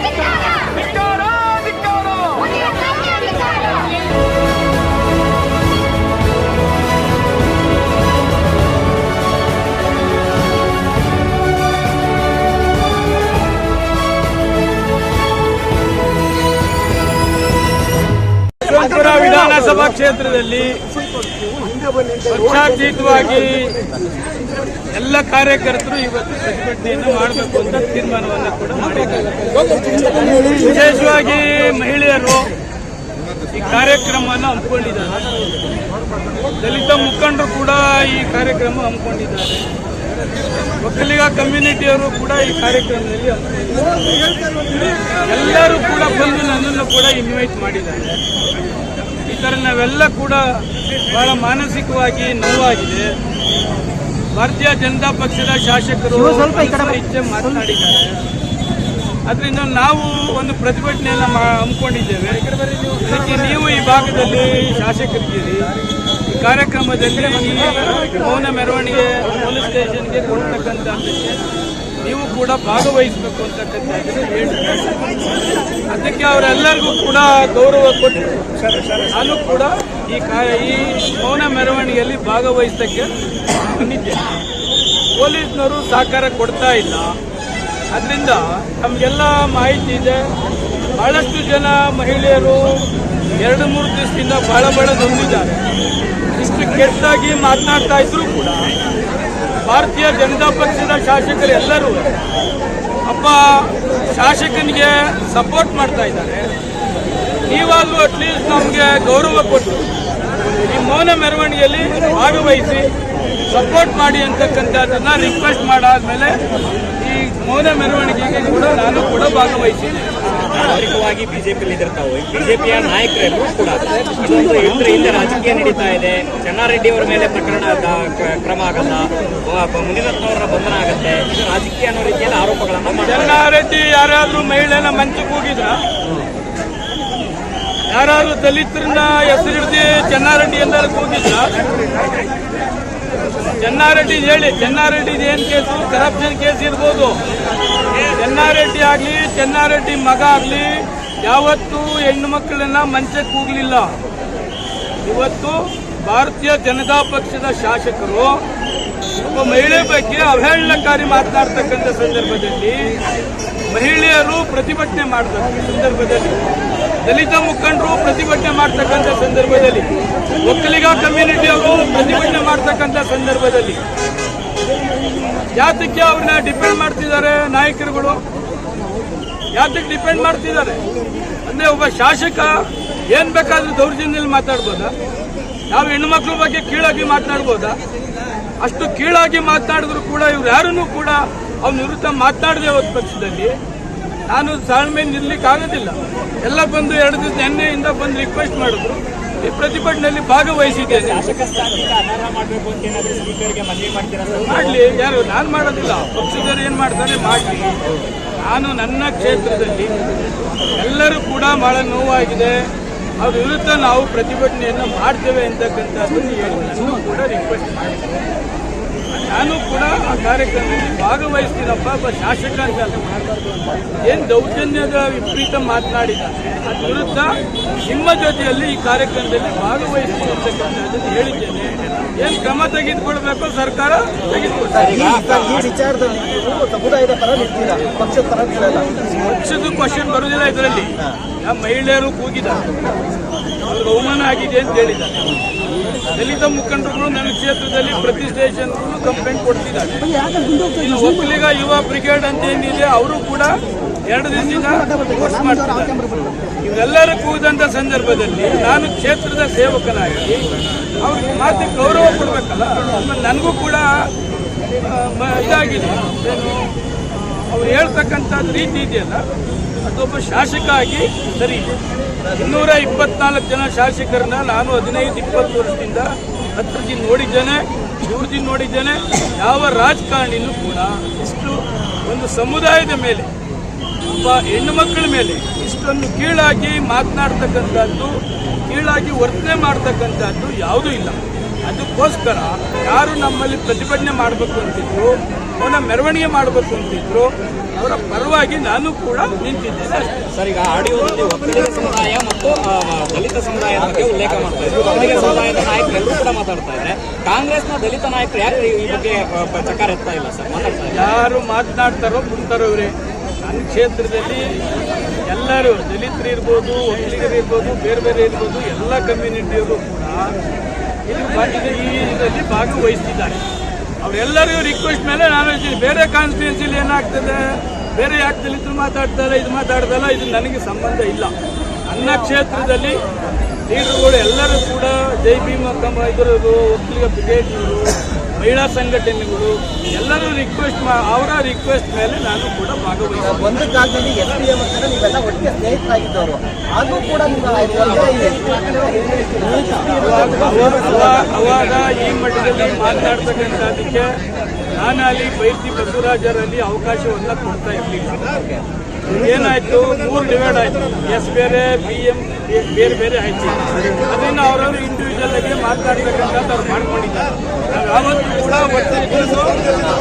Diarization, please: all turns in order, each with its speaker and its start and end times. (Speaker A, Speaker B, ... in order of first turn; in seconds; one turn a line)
Speaker A: 0.3-2.5
Speaker A: 18.6-20.8
Speaker A: 22.2-23.8
Speaker A: 24.9-32.5
Speaker A: 33.5-35.2
Speaker A: 36.6-39.6
Speaker A: 40.8-43.8
Speaker A: 45.2-48.2
Speaker A: 49.2-53.1
Speaker A: 54.3-58.2
Speaker A: 59.2-65.7
Speaker A: 66.3-71.4
Speaker A: 72.0-75.0
Speaker A: 75.9-78.4
Speaker A: 79.0-84.3
Speaker A: 85.2-87.2
Speaker A: 87.9-90.3
Speaker A: 90.9-95.6
Speaker A: 96.3-98.7
Speaker A: 99.6-102.1
Speaker A: 103.1-106.5
Speaker A: 107.5-109.9
Speaker A: 110.7-112.9
Speaker A: 113.5-116.4
Speaker A: 117.0-120.2
Speaker B: 120.4-133.4
Speaker A: 133.1-135.8
Speaker A: 137.9-141.6
Speaker A: 143.6-147.2
Speaker A: 148.0-154.0
Speaker A: 155.0-158.4
Speaker A: 159.2-163.0
Speaker A: 163.7-166.4
Speaker A: 167.0-169.9
Speaker A: 170.4-173.8
Speaker A: 175.5-178.2
Speaker A: 179.5-180.8
Speaker A: 181.4-184.9
Speaker A: 185.7-187.8
Speaker A: 188.6-193.5
Speaker A: 194.3-201.3
Speaker B: 200.8-204.8
Speaker A: 204.4-207.8
Speaker A: 208.4-210.1
Speaker A: 210.7-218.1
Speaker A: 219.1-223.2
Speaker A: 224.0-234.9
Speaker B: 234.8-235.8
Speaker C: 235.2-238.8
Speaker A: 239.1-242.7
Speaker A: 243.6-245.3
Speaker A: 246.1-260.4
Speaker C: 250.3-250.7
Speaker A: 261.0-264.1
Speaker A: 264.7-269.2
Speaker A: 269.8-283.3
Speaker A: 284.1-300.1
Speaker B: 300.1-311.1
Speaker A: 310.9-314.6
Speaker A: 315.2-320.3
Speaker A: 321.1-323.4
Speaker A: 324.0-331.3
Speaker A: 331.9-333.0
Speaker A: 333.7-343.6
Speaker C: 343.4-350.0
Speaker A: 349.9-354.2
Speaker A: 354.8-358.3
Speaker A: 359.1-369.6